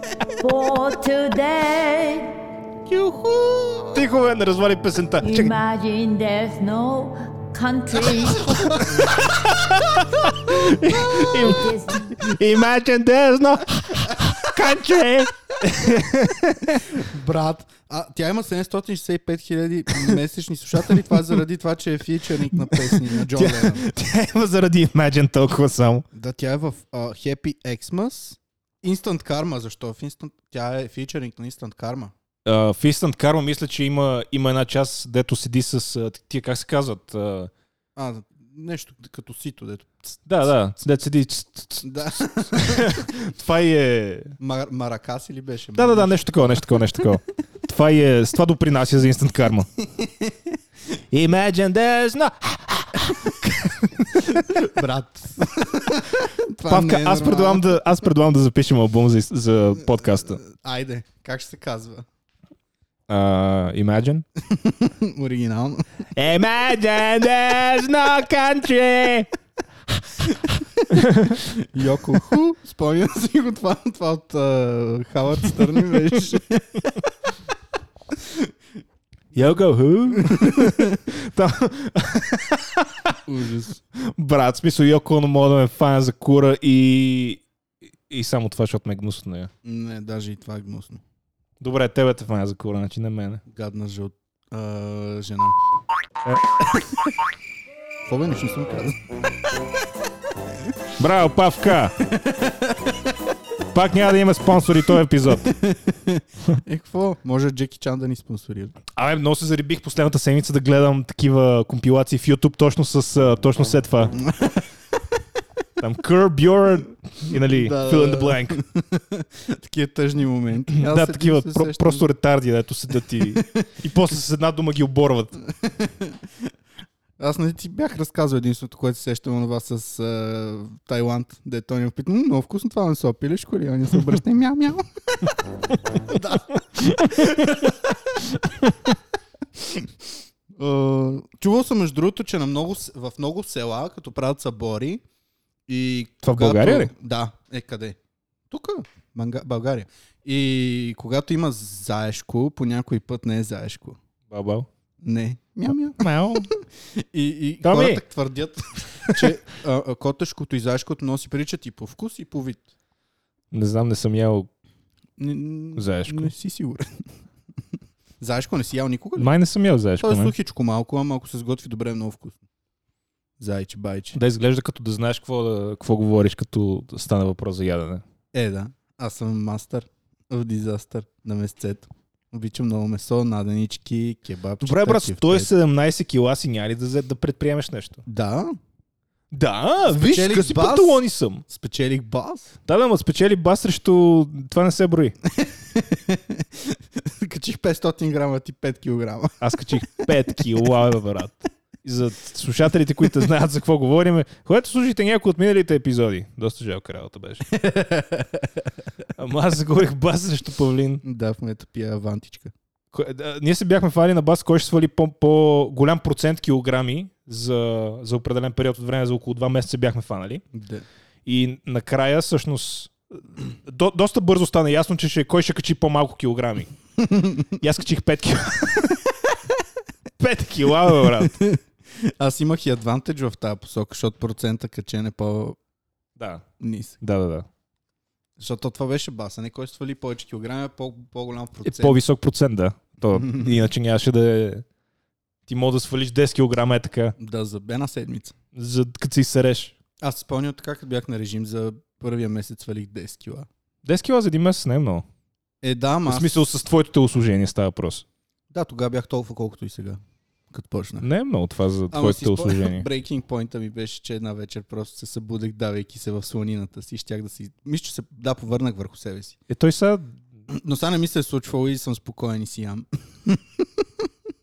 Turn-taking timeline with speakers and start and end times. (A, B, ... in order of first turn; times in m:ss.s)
0:00.3-0:02.3 A
0:02.9-0:04.0 B
0:03.9-0:05.6 C
0:05.2-0:08.9 A
0:08.7-0:17.0 C
0:11.0-0:12.2 A
0:16.9-0:23.9 B
0:22.5-0:26.0 C
0:26.1-0:32.1 B
0:32.4-0:37.5 C
0:38.0-0:40.3 B
0:40.3-0:44.4 C
0:41.8-0:43.1 B
0:44.4-0:46.7 B
0:45.8-0:49.7 C
0:49.8-0:50.6 B
0:51.1-0:54.5 C
0:54.2-0:57.8 B
0:56.7-1:00.4 C
1:00.3-1:02.1 B
1:03.1-1:04.2 C
1:04.4-1:05.8 B
1:06.2-1:09.3 C
1:10.0-1:11.4 C
1:10.5-1:17.1 B
1:18.2-1:18.5 B
1:19.3-1:23.2 C
1:20.1-1:21.0 B
1:23.3-1:23.8 B
1:24.0-1:27.4 C
1:28.1-1:29.5 C
1:29.6-1:31.0 B
1:31.6-1:33.4 C
1:33.5-1:35.6 B
1:36.6-1:37.1 B
1:38.0-1:39.0 B
1:41.0-1:42.0 C
1:42.0-1:43.0 B
1:43.7-1:45.5 C
1:45.4-1:48.8 B
1:49.0-1:54.2 C
1:54.2-1:54.7 B
1:55.8-1:58.6 C
1:57.3-2:02.1 B
2:00.8-2:05.4 C
2:03.1-2:03.6 B
2:05.5-2:06.3 B
2:07.2-2:15.3 B
2:16.1-2:17.9 B
2:16.2-2:17.7 C
2:18.3-2:19.0 C
2:19.6-2:19.9 B
2:20.6-2:25.0 B
2:25.7-2:28.0 B
2:26.2-2:26.9 C
2:28.5-2:34.0 B
2:34.3-2:34.7 C
2:35.0-2:36.0 B
2:36.0-2:36.5 C
2:36.6-2:42.7 B
2:37.6-2:38.0 C
2:39.0-2:39.3 C
2:43.5-2:44.5 C
2:45.2-2:46.9 B
2:45.8-2:46.3 C
2:48.2-2:49.3 B
2:49.2-2:50.3 C
2:50.0-2:52.4 B
2:53.4-2:54.2 B
2:54.1-2:58.0 C
2:58.3-3:05.5 B
3:04.6-3:08.0 C
3:08.1-3:08.6 B
3:09.3-3:11.4 C
3:09.9-3:12.5 B
3:12.7-3:15.2 C
3:15.4-3:19.4 B
3:19.4-3:27.5 C
3:27.5-3:28.6 B
3:29.2-3:31.0 C
3:31.0-3:32.5 B
3:32.9-3:40.4 C
3:40.5-3:40.8 B
3:41.3-3:46.7 C
3:47.0-3:47.5 B
3:47.5-3:49.0 C
3:50.2-3:51.4 C
3:50.9-3:55.6 B
3:56.2-3:56.5 C
3:56.6-3:57.0 B
3:57.0-3:57.5 C
3:58.4-4:02.0 B
4:01.6-4:04.6 C
4:03.2-4:03.6 B
4:05.5-4:07.2 C
4:07.2-4:08.4 B
4:08.5-4:09.8 C
4:10.0-4:13.5 B
4:13.8-4:15.1 C
4:15.6-4:16.4 B
4:16.1-4:18.0 C
4:18.5-4:20.0 B
4:20.5-4:21.1 B
4:21.0-4:22.9 C
4:21.9-4:29.4 B
4:29.5-4:30.2 C
4:30.5-4:34.1 B